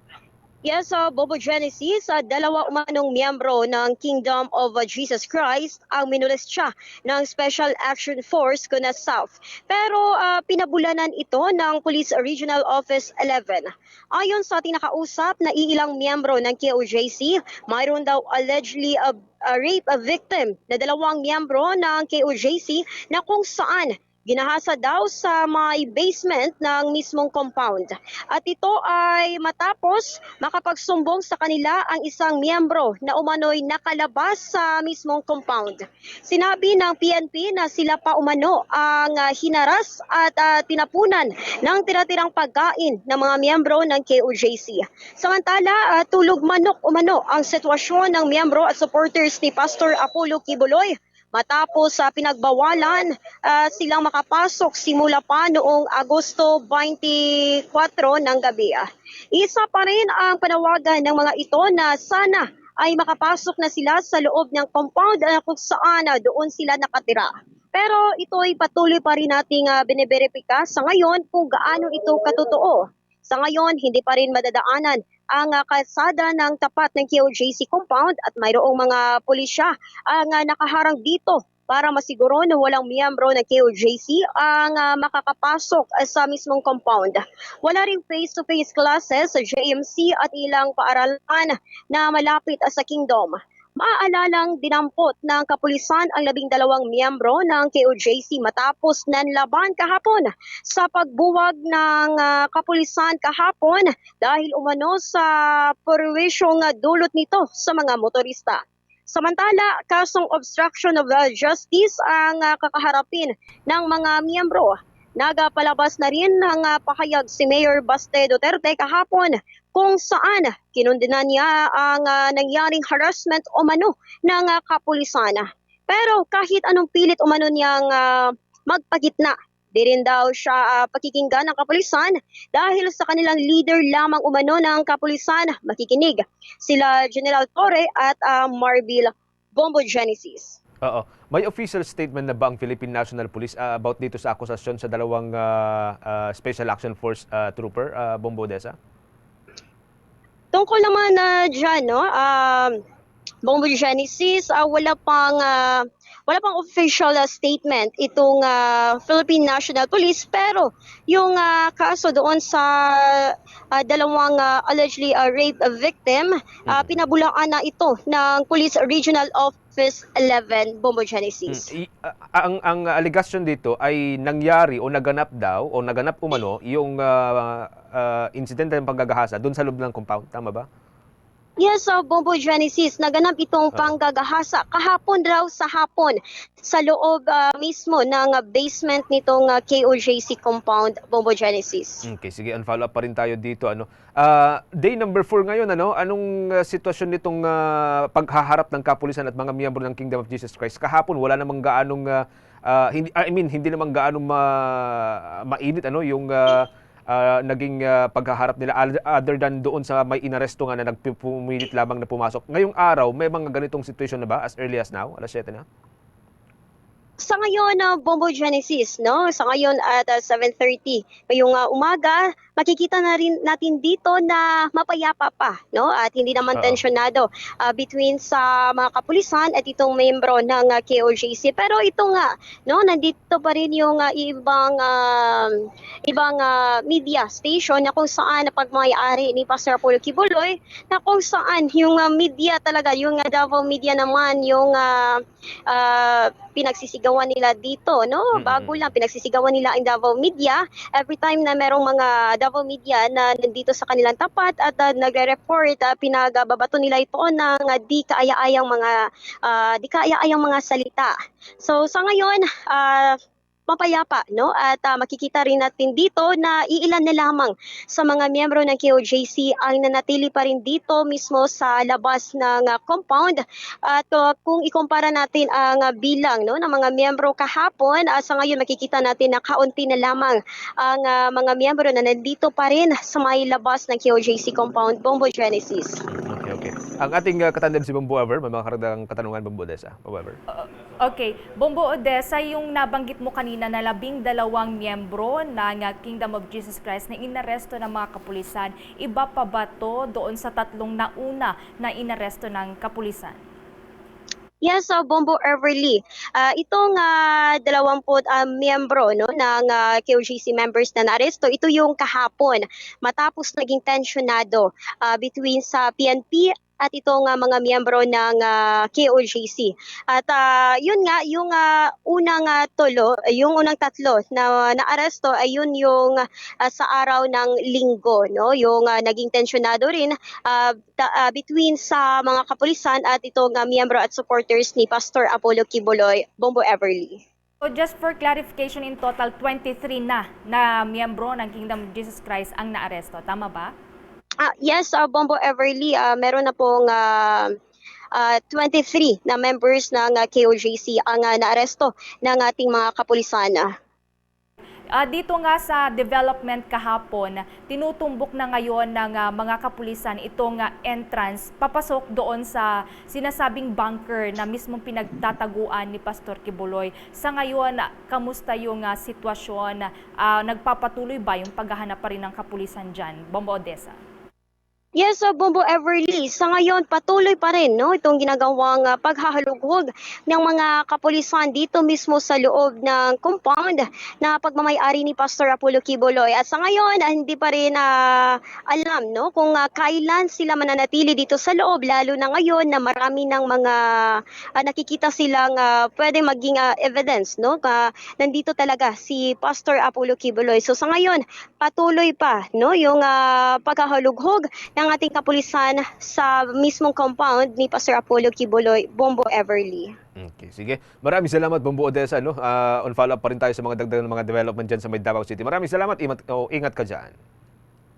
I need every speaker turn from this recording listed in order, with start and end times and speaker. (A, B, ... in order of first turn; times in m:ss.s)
0:00.6-2:20.6 A
2:20.8-2:28.8 B
2:30.5-2:32.8 A
2:33.4-2:51.7 A
2:46.7-2:47.0 B
2:51.5-3:00.7 B
3:01.6-3:12.0 A
3:12.1-3:35.7 B
3:37.2-4:23.2 A
4:08.4-4:08.8 B
4:23.7-4:46.0 A
4:46.1-4:50.4 B
4:50.5-5:03.4 C
5:04.6-5:37.2 A
5:37.6-5:43.7 C
5:44.4-5:47.6 A
5:48.1-5:53.7 A
5:54.9-6:14.0 C
6:15.0-6:49.9 A
6:50.2-6:57.1 B